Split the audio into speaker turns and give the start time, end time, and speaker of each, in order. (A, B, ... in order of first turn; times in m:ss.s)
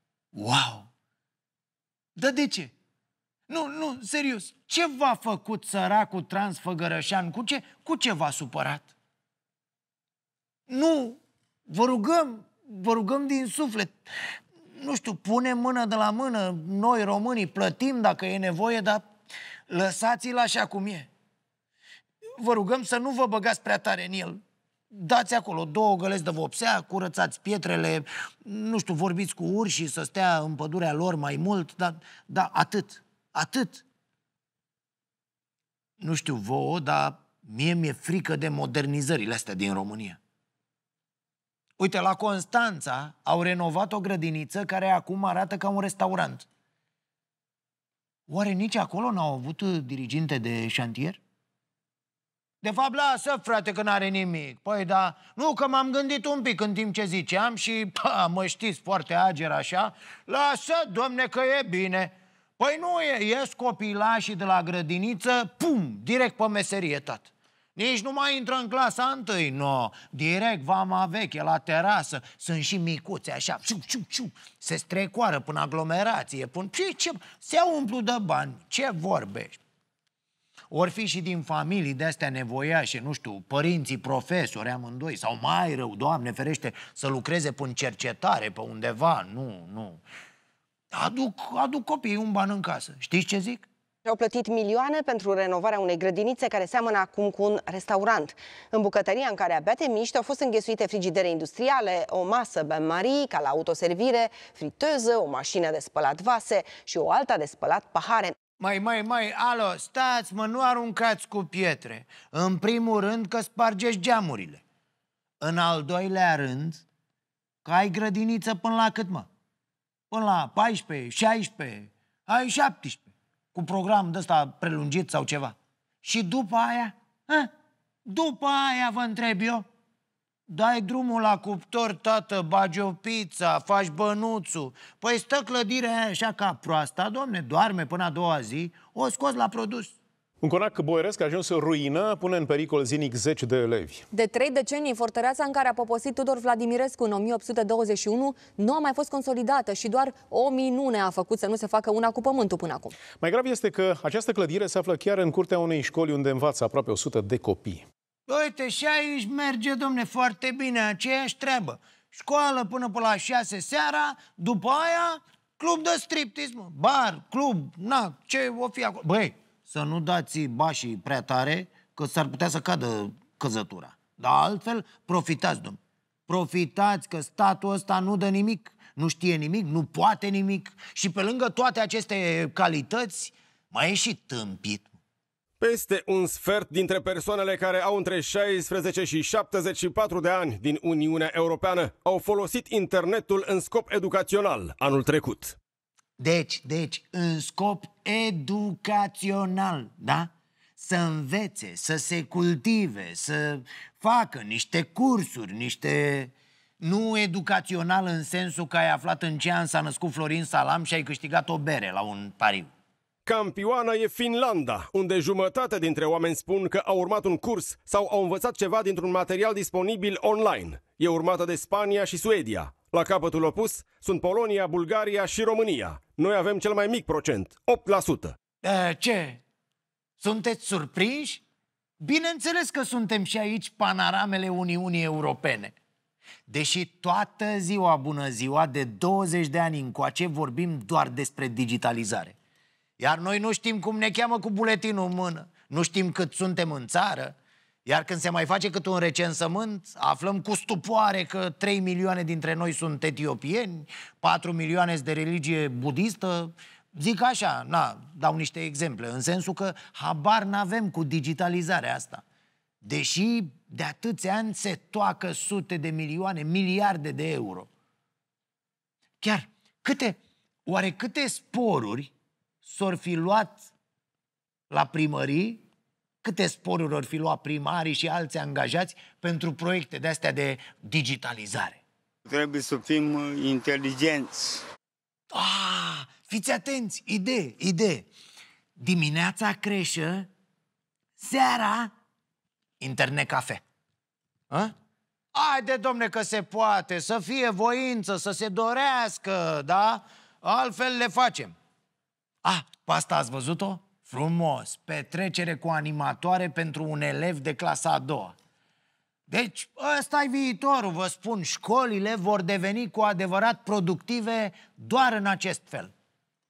0:00.3-0:00.9 A
0:02.2-0:02.7 A
0:03.5-0:08.9 A
0:10.7-0:14.0 A
0:14.8-0:19.0 A
0:19.7-0:21.1 A
0:22.4-0:24.4 A
0:24.9-0:33.8 A
0:36.0-0:40.2 A
0:41.8-0:46.5 A
0:48.3-0:51.2 A
0:52.6-1:19.6 A
1:20.7-1:30.0 A
1:30.9-1:33.7 A
1:34.0-1:48.4 B
1:48.6-1:54.6 A
1:55.4-1:56.8 A
1:57.6-1:59.3 A
2:00.1-2:07.5 A
2:08.1-2:09.6 A
2:10.5-2:19.9 A
2:20.4-2:24.0 C
2:24.1-2:33.0 D
2:33.1-2:37.8 C
2:38.3-3:04.9 A
3:05.6-3:15.5 E
3:16.2-3:32.7 A
3:33.2-3:48.3 E
3:48.6-3:49.4 A
3:50.2-3:51.4 A
3:52.0-3:55.7 A
3:56.5-4:02.4 A
4:03.0-4:22.2 A
4:22.8-4:27.7 A
4:29.2-4:32.1 A
4:32.6-4:33.6 A
4:34.7-4:35.6 A
4:36.2-4:41.8 A
4:42.3-4:44.6 F
4:45.3-4:48.1 A
4:48.8-4:50.3 A
4:51.2-4:51.9 A
4:52.8-4:53.6 A
4:55.3-5:01.5 A
5:02.4-5:08.3 A
5:09.3-5:15.9 A